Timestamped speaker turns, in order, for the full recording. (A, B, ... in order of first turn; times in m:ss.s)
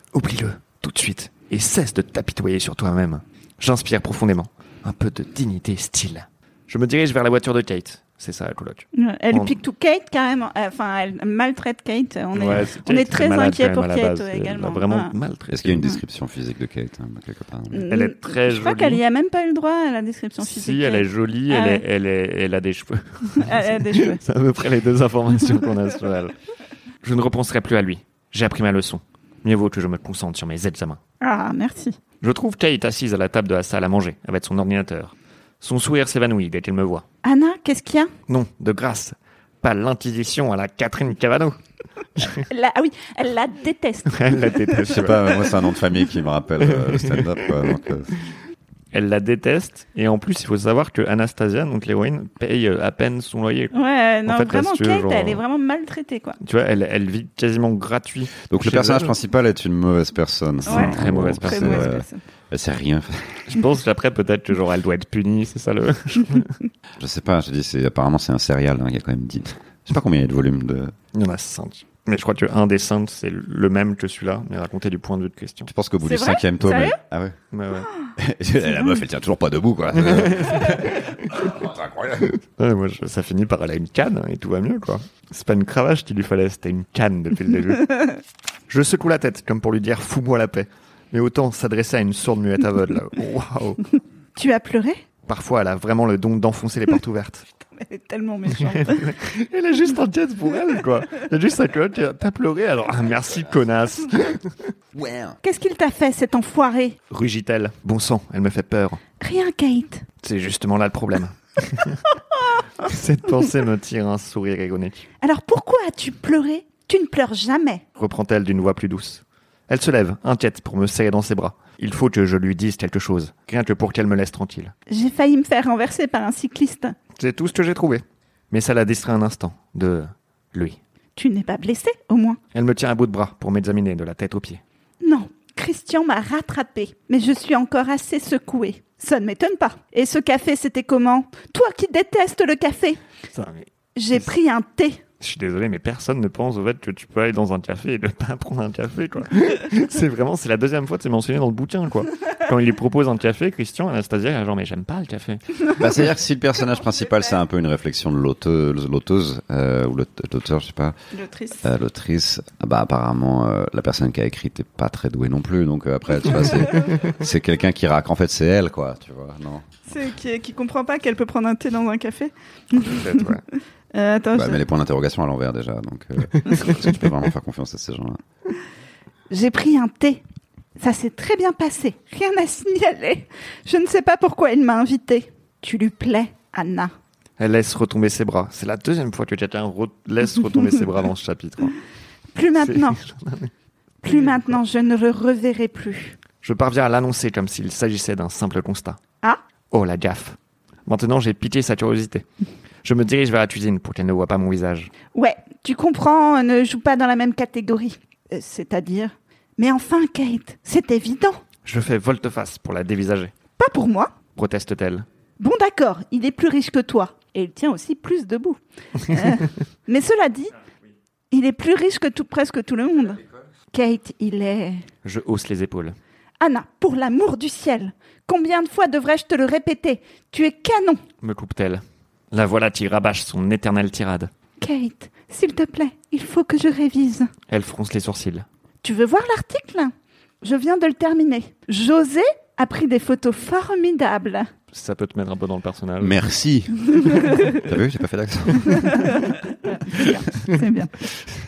0:00.1-0:09.6 A
0:08.9-0:15.1 B
0:12.3-0:15.8 A
0:15.5-0:17.8 C
0:17.7-0:21.8 B
0:17.9-0:19.0 A
0:20.4-0:26.3 A
0:23.4-0:24.2 B
0:27.0-0:31.0 A
0:31.2-0:32.0 B
0:32.2-0:37.0 A
0:37.2-0:38.1 B
0:38.3-0:41.6 A
0:42.2-0:42.4 A
0:42.3-0:44.6 B
0:44.1-0:45.4 A
0:44.8-0:48.1 C
0:46.6-0:47.5 A
0:48.9-0:55.4 A
0:53.7-0:56.4 B
0:56.4-0:59.1 A
0:58.5-1:03.5 C
1:00.6-1:02.0 A
1:00.6-1:02.2 B
1:03.5-1:06.5 A
1:07.0-1:10.9 C
1:11.1-1:15.7 A
1:15.7-1:17.4 C
1:16.0-1:17.0 B
1:17.5-1:17.9 A
1:18.2-1:22.3 C
1:19.9-1:21.0 A
1:22.6-1:28.1 A
1:28.7-1:33.8 A
1:34.4-1:35.0 B
1:35.3-1:37.4 A
1:37.8-1:39.1 B
1:38.5-1:44.6 A
1:44.9-1:45.4 C
1:45.4-1:47.0 B
1:47.1-1:49.0 A
1:49.2-1:50.0 B
1:50.2-1:52.0 A
1:52.8-1:55.1 A
1:55.2-1:57.8 B
1:58.0-2:04.7 A
2:04.9-2:06.9 B
2:07.2-2:10.8 A
2:11.2-2:12.4 B
2:12.5-2:14.6 A
2:15.0-2:23.0 B
2:23.3-2:24.3 A
2:24.0-2:25.0 B
2:25.2-2:35.4 A
2:35.7-2:41.0 C
2:41.1-2:41.7 B
2:41.6-2:49.8 C
2:49.9-2:53.3 B
2:52.8-2:53.4 A
2:53.9-2:54.6 B
2:54.3-2:58.2 C
2:59.3-3:00.2 B
3:00.8-3:06.9 B
3:07.4-3:11.8 A
3:12.3-3:13.0 B
3:12.6-3:13.5 A
3:14.0-3:16.2 B
3:14.1-3:14.6 A
3:16.4-3:19.0 A
3:19.7-3:22.2 A
3:22.8-3:24.9 A
3:25.1-3:31.4 B
3:31.6-3:33.3 A
3:33.6-3:34.1 B
3:34.3-3:35.0 A
3:35.4-3:40.5 B
3:41.3-3:44.8 B
3:45.0-3:46.0 A
3:46.4-3:51.0 B
3:51.2-3:54.3 A
3:54.6-3:57.3 B
3:57.5-3:58.4 A
3:58.8-4:04.5 B
4:04.7-4:06.2 A
4:06.0-4:09.0 C
4:08.7-4:09.2 B
4:09.7-4:10.9 B